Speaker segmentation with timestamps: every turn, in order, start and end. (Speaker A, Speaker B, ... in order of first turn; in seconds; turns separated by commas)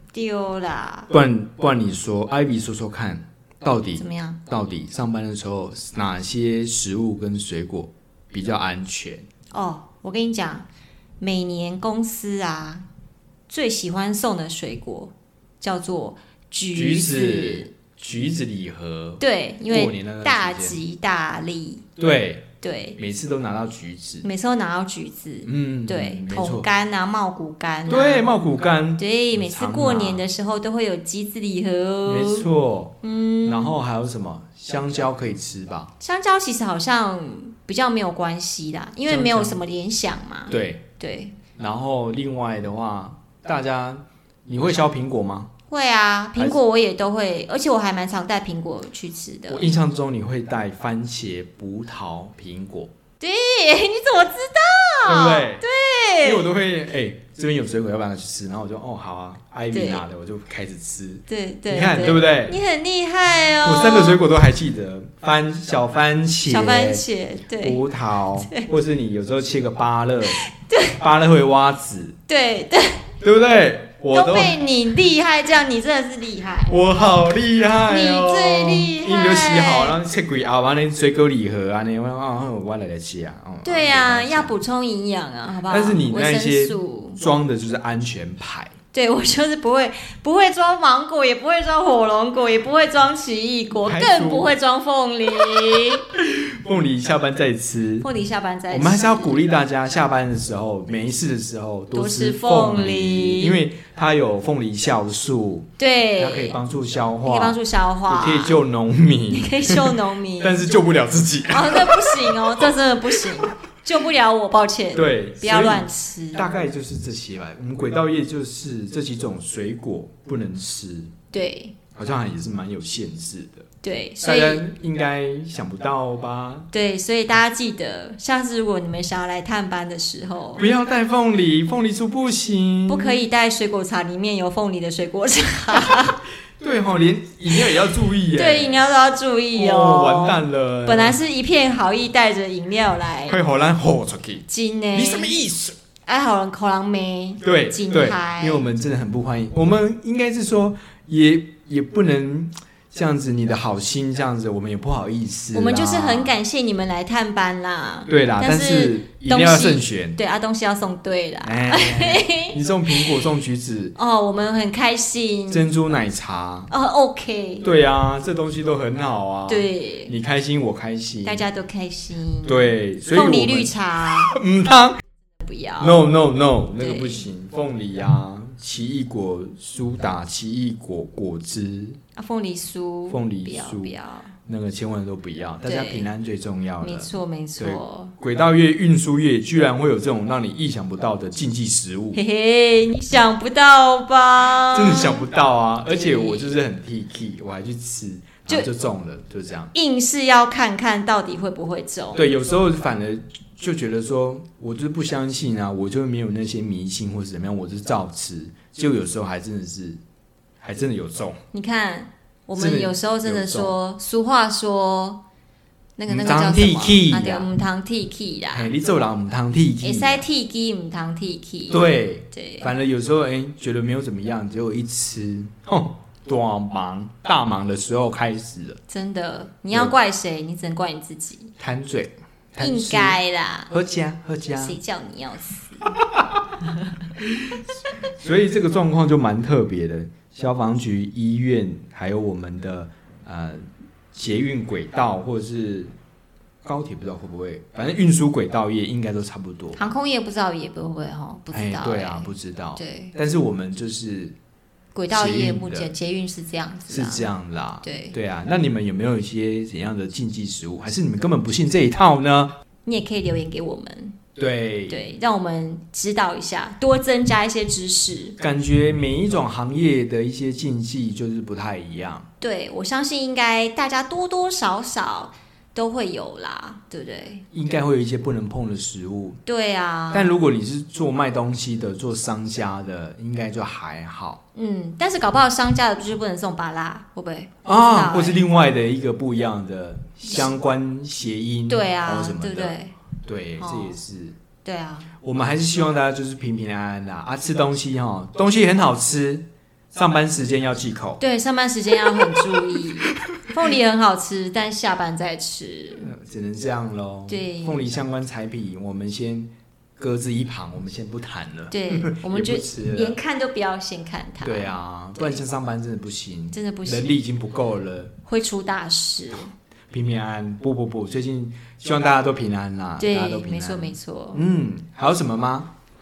Speaker A: 0.1-1.1, Speaker B: 1.1-9.2, Speaker A: 4.0-4.4, Speaker A: 9.5-10.7, Speaker A: 11.2-12.8, Speaker A: 13.5-17.7, Speaker B: 16.7-20.8, Speaker A: 19.2-21.9, Speaker B: 22.0-24.2, Speaker A: 22.6-23.0, Speaker A: 24.2-28.3, Speaker B: 25.4-26.7, Speaker B: 27.9-30.2, Speaker A: 29.0-32.5, Speaker B: 32.0-35.9, Speaker A: 33.0-33.8, Speaker A: 36.0-41.4, Speaker B: 39.1-39.6, Speaker B: 40.5-40.8, Speaker B: 41.5-45.5, Speaker A: 45.7-49.7, Speaker B: 49.5-52.9, Speaker A: 53.2-56.5, Speaker B: 55.0-55.6, Speaker B: 56.2-62.6, Speaker A: 59.7-60.0, Speaker A: 61.3-64.2, Speaker B: 63.6-67.0, Speaker A: 66.5-67.8, Speaker B: 67.6-70.4, Speaker A: 68.4-68.7, Speaker A: 70.3-71.0, Speaker B: 71.0-72.2, Speaker A: 72.3-73.1, Speaker B: 73.2-74.6, Speaker A: 74.1-76.8, Speaker B: 76.7-84.5, Speaker A: 77.9-80.0, Speaker A: 83.6-87.2, Speaker B: 85.7-88.7, Speaker A: 88.9-96.0, Speaker B: 93.8-94.5, Speaker B: 95.5-98.1, Speaker A: 98.0-99.4, Speaker B: 98.7-112.7, Speaker A: 101.9-103.6, Speaker A: 105.8-106.6, Speaker A: 107.2-108.6, Speaker A: 109.3-110.6, Speaker A: 111.5-116.6, Speaker B: 114.9-121.1, Speaker A: 121.3-121.8, Speaker B: 121.9-123.7, Speaker A: 123.8-124.7, Speaker B: 124.2-126.7, Speaker A: 126.7-130.7, Speaker B: 130.6-133.2, Speaker A: 132.9-136.2, Speaker B: 136.6-138.8, Speaker A: 138.3-143.4, Speaker B: 139.5-141.2, Speaker B: 143.3-145.8, Speaker A: 144.5-145.3, Speaker A: 146.1-148.6, Speaker B: 147.4-156.3, Speaker A: 155.5-163.2, Speaker B: 158.1-160.2, Speaker B: 161.4-163.9, Speaker A: 163.9-165.7, Speaker B: 165.5-166.7, Speaker A: 166.7-167.7, Speaker B: 167.6-171.4, Speaker A: 169.5-170.1, Speaker A: 171.2-174.3, Speaker B: 172.4-175.0, Speaker A: 175.4-176.1, Speaker B: 175.8-182.0, Speaker A: 176.8-177.2, Speaker A: 182.1-184.3, Speaker B: 183.1-183.9, Speaker B: 184.4-192.2, Speaker A: 185.6-186.1, Speaker A: 186.8-188.1, Speaker A: 192.1-195.3, Speaker B: 194.7-199.7, Speaker A: 195.9-196.5, Speaker A: 199.7-202.2, Speaker B: 202.1-210.0, Speaker B: 210.6-211.4, Speaker A: 211.5-215.2, Speaker B: 212.6-213.7, Speaker A: 216.0-218.7, Speaker B: 216.1-217.5, Speaker B: 218.5-220.2, Speaker A: 219.8-222.7, Speaker B: 221.7-228.8, Speaker A: 228.9-231.5, Speaker B: 231.6-234.8, Speaker A: 232.6-233.7, Speaker A: 234.5-235.8, Speaker B: 235.8-236.5, Speaker B: 237.2-245.9, Speaker B: 246.6-249.9, Speaker A: 249.8-253.1, Speaker B: 251.5-254.3, Speaker A: 254.9-257.3, Speaker B: 255.1-255.9, Speaker B: 256.9-262.5, Speaker A: 257.8-258.1, Speaker A: 262.9-264.2, Speaker B: 264.4-265.0, Speaker A: 264.9-268.4, Speaker B: 268.4-272.3, Speaker A: 272.4-277.4, Speaker B: 277.5-279.4, Speaker A: 279.4-280.4, Speaker B: 280.1-284.4, Speaker A: 284.5-288.4, Speaker B: 287.6-294.4, Speaker A: 291.7-292.9, Speaker A: 293.6-293.9, Speaker A: 294.6-295.1, Speaker B: 295.2-301.2, Speaker A: 301.2-306.1, Speaker B: 302.1-303.4, Speaker B: 306.0-313.2, Speaker A: 307.3-307.8, Speaker A: 311.7-315.4, Speaker B: 314.4-318.1, Speaker A: 316.5-317.1, Speaker A: 318.2-319.5, Speaker B: 319.9-325.7, Speaker A: 323.0-324.4